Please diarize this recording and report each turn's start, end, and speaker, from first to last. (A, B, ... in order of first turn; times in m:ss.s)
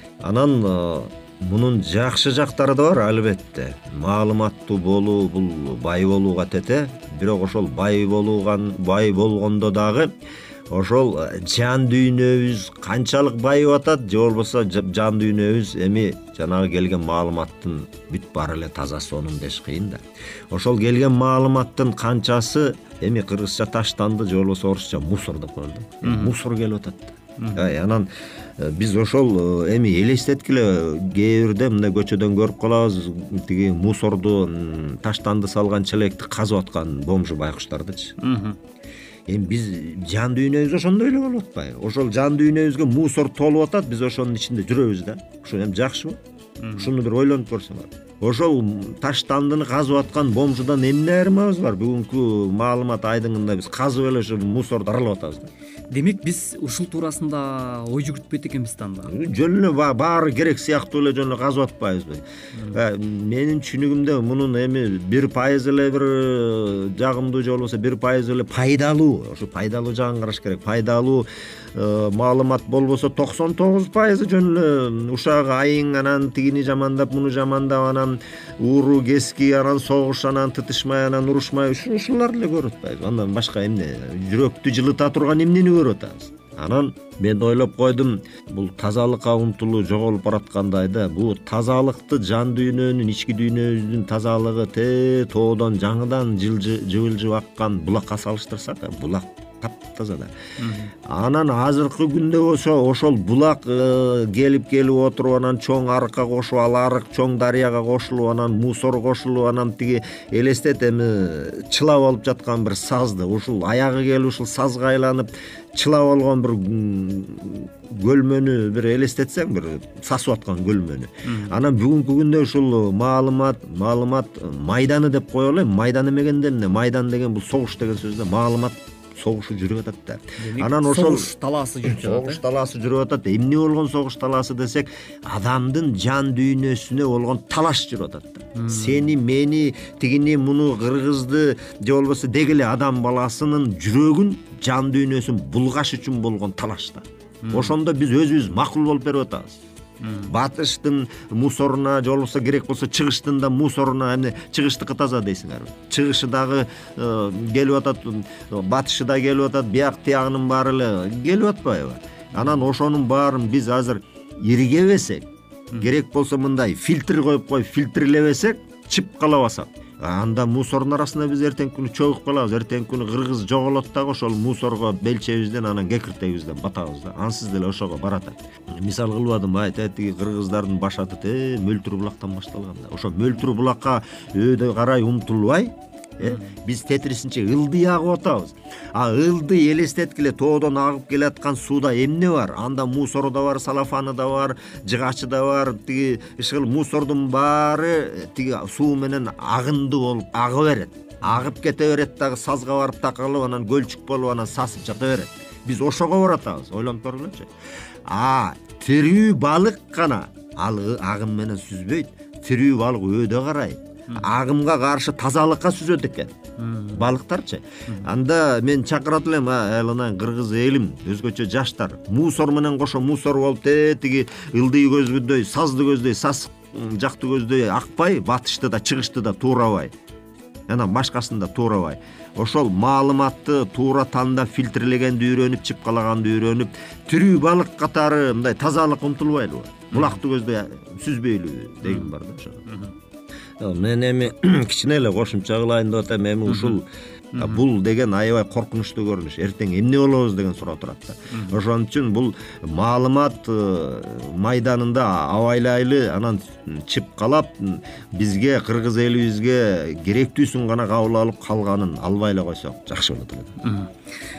0:00.2-0:10.1 A
0:10.7-0:38.1 A
0:26.0-0:26.3 B
0:38.2-0:38.6 B
0:39.3-0:46.2 A
0:46.6-0:46.9 B
0:46.8-0:55.5 A
0:55.9-0:59.1 B
0:59.1-1:40.3 A
1:02.6-1:02.8 B
1:40.6-1:40.9 B
1:41.1-2:11.3 A
2:01.3-2:01.6 B
2:10.4-2:12.4 B
2:11.8-2:29.6 A
2:18.6-2:19.2 B
2:27.4-2:27.8 B
2:30.0-2:30.3 B
2:30.3-3:27.5 A
3:06.2-3:06.5 B
3:28.1-3:36.3 A
3:36.6-3:37.0 B
3:36.9-3:49.9 A
3:50.7-4:02.6 A
3:59.9-4:00.2 B
4:01.8-4:02.1 B
4:02.7-4:02.9 B
4:03.6-4:06.9 A
4:06.5-4:06.8 B
4:07.4-4:07.6 B
4:07.4-4:23.5 A
4:23.6-4:23.9 B